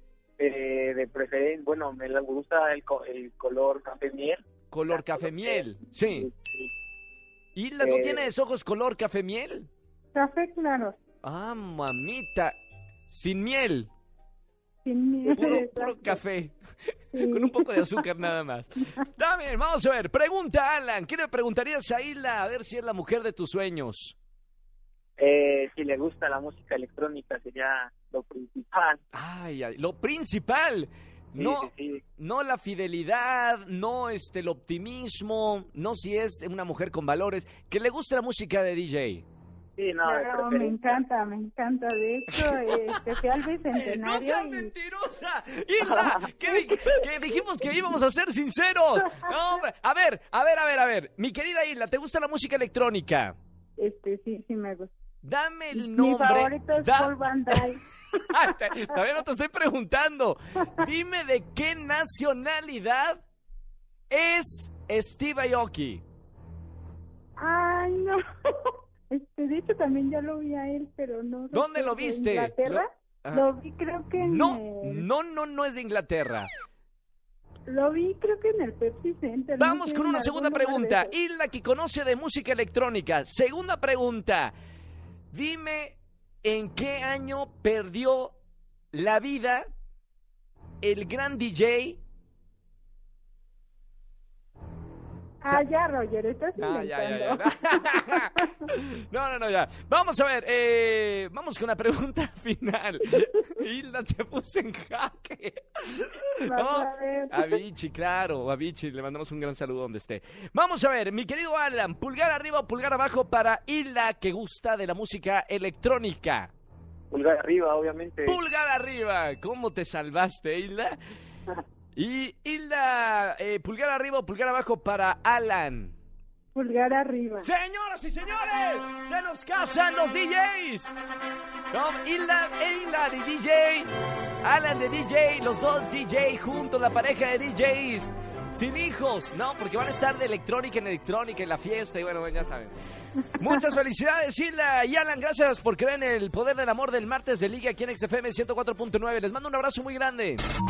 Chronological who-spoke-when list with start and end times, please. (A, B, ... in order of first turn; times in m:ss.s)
0:00.4-0:06.7 A
0:04.7-0:06.3 B
0:07.5-0:09.7 B
0:07.8-0:08.3 A
0:10.1-0:10.9 C
0:11.2-0:12.6 B
0:13.1-0:13.9 B
0:14.8-0:16.2 C
0:15.3-0:16.5 B
0:17.1-0:24.2 B
0:17.1-0:17.8 C
0:25.2-0:29.0 A
0:29.1-0:39.2 B
0:31.4-0:32.0 A
0:39.8-0:41.0 A
0:40.0-0:44.7 C
0:42.4-0:43.0 B
0:43.7-0:53.4 B
0:53.8-0:54.9 C
0:55.2-0:57.6 B
0:55.7-0:57.8 C
0:58.3-1:03.2 B
1:04.1-1:06.0 B
1:07.4-1:15.1 C
1:11.5-1:13.4 B
1:14.2-1:16.5 B
1:17.7-1:21.1 C
1:19.6-1:24.5 B
1:25.3-1:28.4 B
1:28.9-1:29.6 B
1:30.8-1:32.0 B
1:35.4-1:38.4 C
1:36.6-1:56.5 B
1:46.4-1:47.6 C
1:57.1-1:58.4 A
1:58.2-2:01.0 B
2:01.9-2:05.9 B
2:06.5-2:07.5 C
2:07.4-2:11.0 B
2:11.7-2:13.9 B
2:14.4-2:22.7 B
2:23.4-2:30.4 B